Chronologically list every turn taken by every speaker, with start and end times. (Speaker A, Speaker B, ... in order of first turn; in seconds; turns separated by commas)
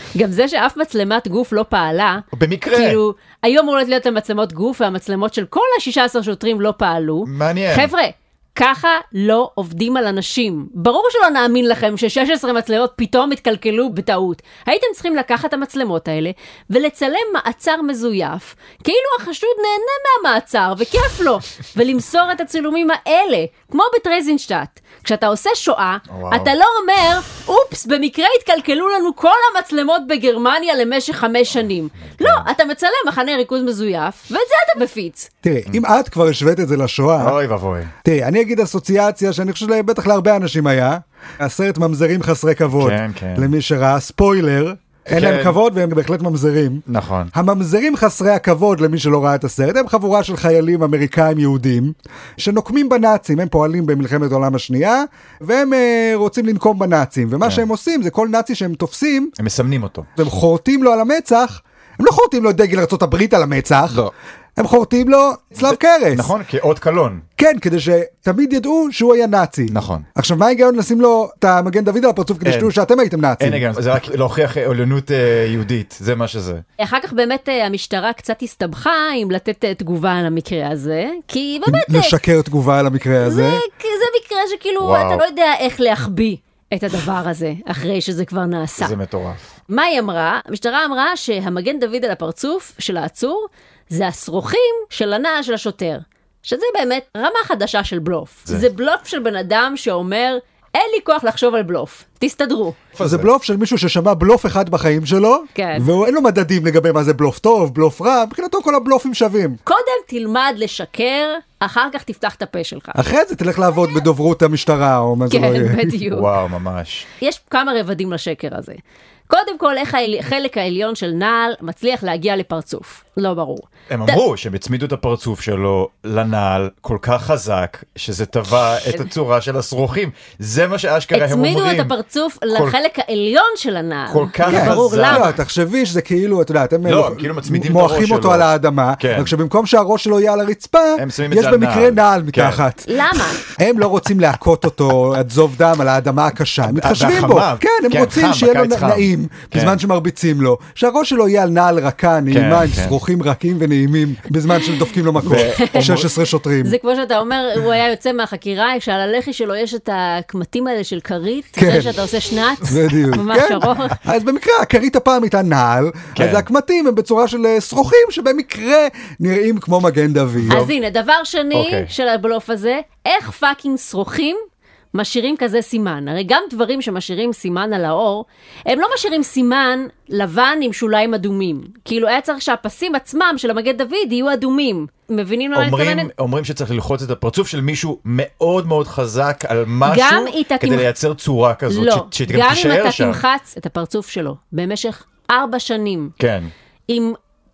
Speaker A: 0.2-35.3, Speaker B: 2.3-3.0, Speaker B: 7.3-7.9, Speaker B: 26.1-26.5, Speaker B: 32.1-32.5, Speaker C: 35.4-37.4, Speaker B: 37.2-37.9, Speaker C: 38.0-59.3, Speaker B: 42.8-43.5, Speaker B: 45.1-45.6, Speaker B: 46.9-47.3, Speaker B: 59.4-60.1, Speaker C: 60.2-64.0, Speaker C: 64.6-66.3, Speaker B: 65.7-67.2, Speaker C: 67.4-73.6, Speaker B: 69.7-70.0, Speaker B: 72.4-72.7, Speaker B: 73.4-76.6, Speaker A: 76.8-82.2, Speaker C: 81.7-83.6, Speaker A: 83.2-89.0, Speaker B: 84.8-85.2, Speaker B: 88.8-89.5, Speaker A: 89.7-102.8, Speaker B: 103.0-103.3, Speaker C: 103.0-109.6, Speaker A: 105.5-105.9, Speaker A: 109.7-113.0, Speaker C: 113.0-115.9, Speaker A: 115.3-116.3, Speaker B: 116.1-117.1, Speaker A: 117.2-124.2, Speaker B: 123.9-131.9, Speaker A: 131.1-135.3, Speaker B: 134.1-135.3, Speaker C: 134.5-142.9, Speaker B: 136.8-139.3, Speaker B: 141.0-142.6, Speaker A: 142.9-143.4, Speaker C: 143.5-156.8, Speaker B: 146.7-149.8, Speaker B: 152.3-153.0, Speaker B: 155.2-156.1, Speaker A: 155.3-156.0, Speaker A: 156.6-164.0, Speaker C: 161.6-161.9, Speaker C: 162.7-170.7, Speaker B: 166.2-166.5, Speaker B: 170.4-170.7, Speaker A: 170.5-174.4, Speaker B: 171.5-171.9, Speaker A: 174.9-186.1, Speaker B: 185.6-193.2, Speaker A: 189.8-190.9, Speaker A: 191.7-196.1, Speaker B: 196.2-196.5, Speaker A: 196.9-197.2